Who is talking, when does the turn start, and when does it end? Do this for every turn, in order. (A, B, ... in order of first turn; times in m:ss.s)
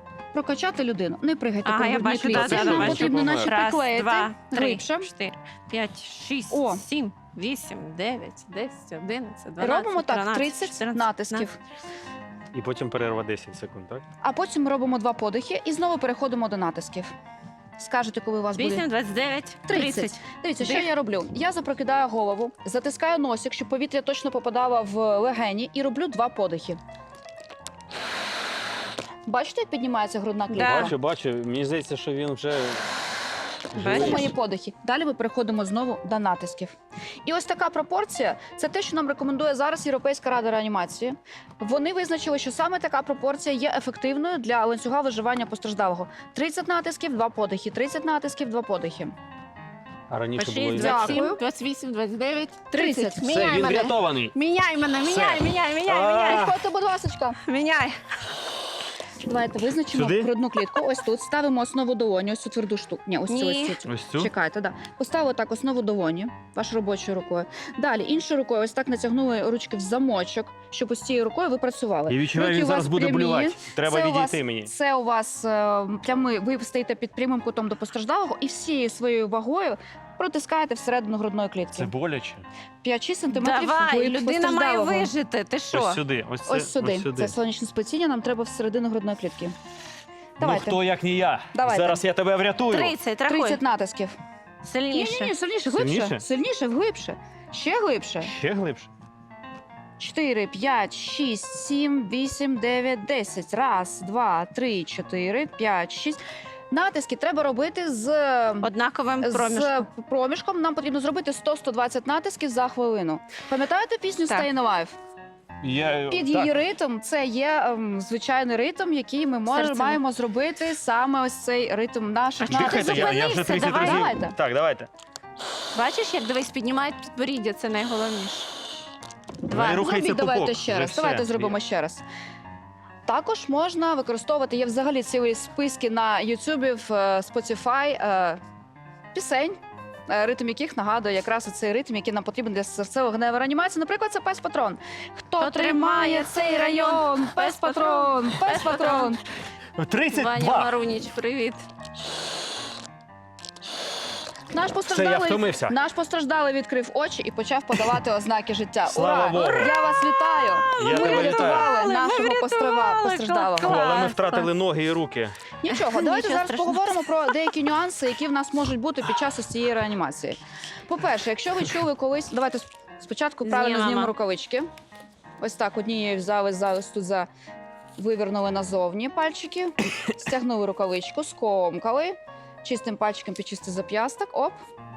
0:00.3-0:05.1 A
0:01.6-0:11.5 B
0:02.3-0:03.5 C
0:06.5-0:06.8 A
0:09.6-0:11.6 A
0:12.5-0:14.0 C
0:14.2-0:17.1 A
0:17.8-0:18.9 A
0:18.6-0:20.9 B
0:19.7-0:26.8 A
0:29.3-0:31.0 A
0:30.5-0:30.9 B
0:30.5-0:32.9 C
0:33.7-0:34.3 C
0:33.8-0:34.2 B
0:33.8-0:49.1 A
0:50.1-0:51.3 C
0:50.4-0:56.5 B
0:50.8-0:51.4 A
0:52.7-0:53.4 A
0:53.2-0:54.3 C
0:55.0-0:56.6 C
0:55.9-0:57.4 A
0:57.4-0:58.0 B
0:59.2-1:21.9 A
0:59.9-1:00.3 C
1:03.3-1:03.8 B
1:03.9-1:04.3 C
1:12.1-1:14.7 C
1:21.7-1:22.5 C
1:22.8-1:25.1 A
1:23.3-1:26.0 B
1:25.7-1:27.4 C
1:26.5-1:29.6 A
1:30.4-1:30.8 A
1:30.4-1:32.9 C
1:31.5-1:32.0 A
1:32.7-1:33.6 B
1:33.3-1:34.2 A
1:34.6-1:35.3 B
1:34.9-1:38.3 A
1:35.7-1:36.2 C
1:38.2-1:38.9 C
1:40.0-1:46.2 A
1:46.7-1:48.7 A
1:48.6-1:49.9 B
1:49.2-1:55.0 A
1:55.6-1:56.5 C
1:56.1-2:04.4 A
1:59.5-2:00.0 B
2:02.4-2:04.1 B
2:02.5-2:04.9 C
2:05.7-2:08.5 B
2:09.5-2:12.0 A
2:09.5-2:11.6 C
2:13.1-2:18.4 A
2:19.1-2:29.2 A
2:25.4-2:29.1 B
2:29.8-2:30.7 C
2:30.1-2:31.6 B
2:34.5-2:44.1 A
2:34.9-2:35.8 C
2:38.9-2:39.8 C
2:40.7-2:44.5 B
2:40.8-2:41.7 C
2:43.6-2:45.4 C
2:45.6-2:54.7 A
2:45.7-2:47.1 B
2:53.4-2:54.1 B
2:55.4-2:57.3 A
2:58.0-3:04.6 A